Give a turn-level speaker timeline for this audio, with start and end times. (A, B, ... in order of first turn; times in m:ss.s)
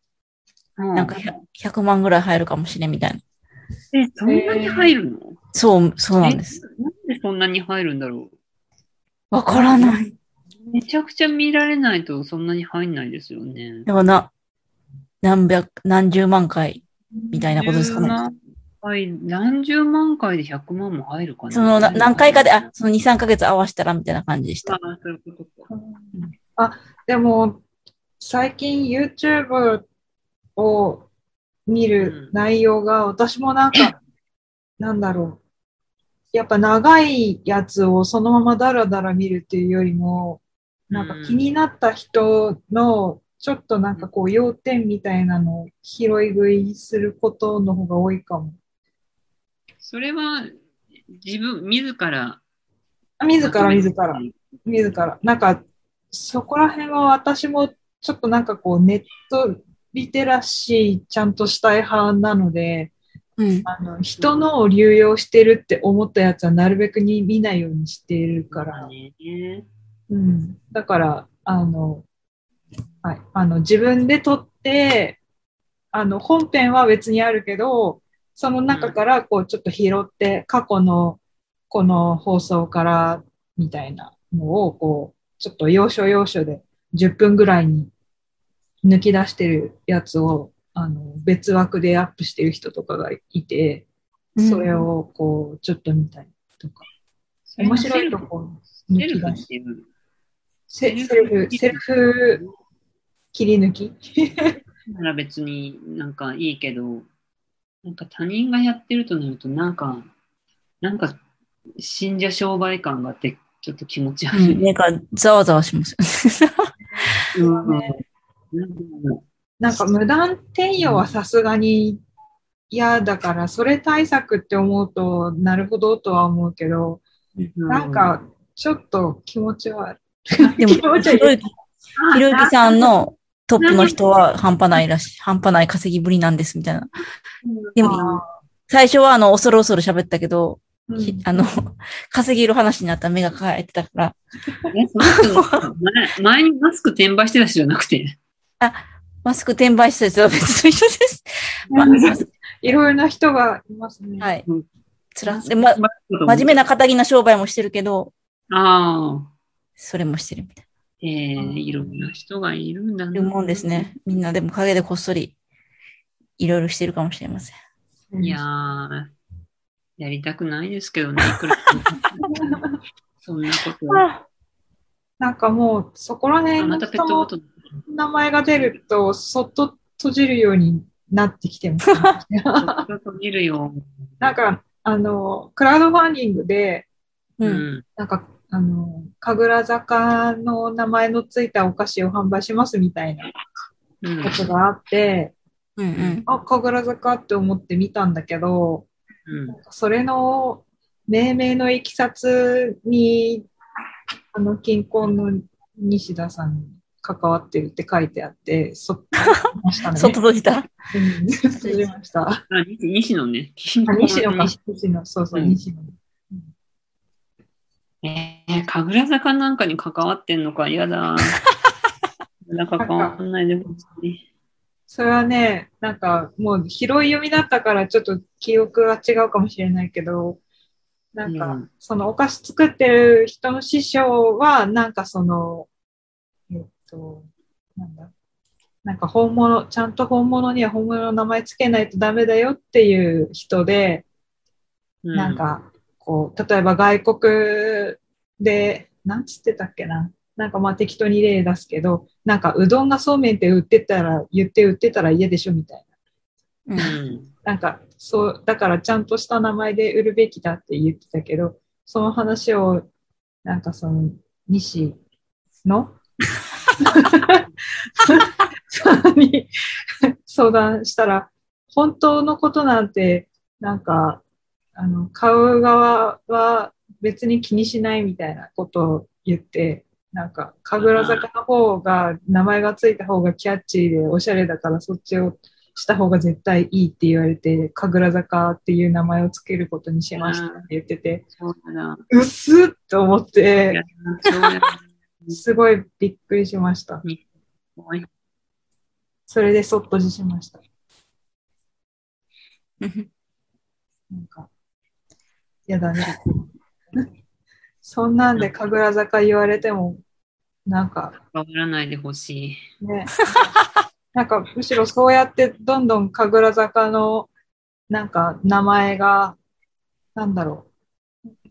0:00.8-0:01.3 A
0:01.0-0:03.2 B
0:03.9-0:05.4 A
0:04.2-0:04.9 C
0:05.5-0:06.6 B
0:06.2-0:08.3 A
0:09.3-0:10.1 B
0:09.5-0:10.0 A
0:10.7-0:13.9 A
0:13.9-0:14.3 B
0:15.2-0:18.2 B
0:17.1-0:17.4 C
0:17.5-0:22.7 A
0:21.5-0:24.8 B
0:24.6-0:25.7 A
0:25.7-0:27.6 C
0:28.2-0:29.8 C
0:30.6-0:31.1 C
0:31.7-0:34.0 C
0:32.0-0:32.3 A
0:34.8-0:35.4 C
0:36.3-0:48.6 C
0:40.9-0:41.4 A
0:49.8-0:50.5 A
0:51.2-0:52.4 A
0:53.2-1:02.9 C
0:53.4-0:54.3 A
1:03.4-1:03.6 B
1:03.6-1:08.9 C
1:08.5-1:09.7 A
1:10.1-1:12.1 C
1:13.0-1:15.2 C
1:15.9-1:27.9 C
1:18.7-1:19.0 A
1:28.8-1:33.8 C
1:34.4-1:34.8 B
1:34.4-1:36.8 C
1:37.5-1:38.3 A
1:37.6-1:39.4 C
1:38.9-1:39.8 A
1:40.7-1:42.4 C
1:40.8-1:42.5 A
1:43.3-1:44.6 C
1:44.9-1:47.1 A
1:47.8-1:50.1 A
1:50.8-1:51.2 A
1:51.8-1:54.6 A
1:54.3-1:56.7 B
1:56.9-1:58.0 C
1:57.3-1:58.0 A
1:58.5-1:59.2 A
1:59.6-2:02.0 C
2:00.8-2:01.1 A
2:02.7-2:07.0 C
2:07.4-2:08.1 A
2:07.7-2:11.4 C
2:10.6-2:11.4 B
2:12.0-2:12.8 A
2:12.1-2:16.9 B
2:13.6-2:14.0 A
2:17.4-2:18.2 A
2:17.8-2:18.0 B
2:17.8-2:18.2 C
2:18.7-2:24.2 B
2:20.9-2:21.3 C
2:24.7-2:28.2 A
2:25.1-2:25.6 B
2:28.6-2:32.3 B
2:31.7-2:34.3 C
2:34.2-2:34.4 B
2:35.1-2:38.1 B
2:35.2-2:36.6 A
2:38.5-2:39.3 A
2:39.8-2:40.6 B
2:41.0-2:43.9 A
2:41.4-2:42.0 C
2:43.1-2:45.3 B
2:46.4-2:47.5 B
2:48.1-2:48.4 C
2:48.2-2:49.1 A
2:50.0-2:52.3 A
2:52.3-2:52.7 C
2:53.2-2:54.0 A
2:53.9-2:54.2 B
2:55.2-2:57.3 C
2:56.6-2:57.5 A
2:57.8-3:02.8 C
3:02.6-3:04.3 A
3:04.2-3:06.9 C
3:07.4-3:07.8 A
3:08.0-3:13.3 C
3:14.0-3:14.5 A
3:14.2-3:15.3 C
3:15.8-3:16.2 B
3:15.9-3:16.2 A
3:16.2-3:18.9 C
3:19.3-3:19.6 A
3:19.5-3:23.5 C
3:24.3-3:30.2 C
3:29.9-3:30.7 B
3:30.9-3:32.4 C
3:31.5-3:31.9 B
3:32.5-3:34.5 A
3:33.9-3:36.5 C
3:35.3-3:35.6 A
3:38.0-3:41.4 A
3:42.4-3:44.2 A
3:42.8-3:43.2 C
3:44.9-3:50.4 C
3:51.1-3:55.7 C
3:51.2-3:51.7 A
3:56.5-3:58.1 C
3:58.8-4:04.1 C
4:05.0-4:05.4 A
4:05.1-4:15.8 C
4:16.7-4:16.9 B
4:16.8-4:17.3 A
4:17.4-4:22.9 C
4:23.4-4:25.0 C
4:25.6-4:26.0 C
4:26.8-4:27.4 C
4:28.0-4:29.5 C
4:30.2-4:34.2 C
4:34.7-4:51.2 C
4:40.8-4:41.2 A
4:50.1-4:50.7 A
4:51.4-4:52.0 A
4:52.1-4:53.8 C
4:53.7-4:55.4 A
4:55.3-4:57.0 C
4:57.8-4:58.1 A
4:59.3-5:00.6 C
5:02.8-5:03.1 B
5:04.1-5:04.5 C
5:05.7-5:06.4 C
5:07.8-5:10.0 C
5:10.6-5:11.1 C
5:11.2-5:12.6 A
5:12.8-5:13.3 C
5:14.1-5:17.3 C
5:17.9-5:19.4 C
5:20.2-5:20.7 C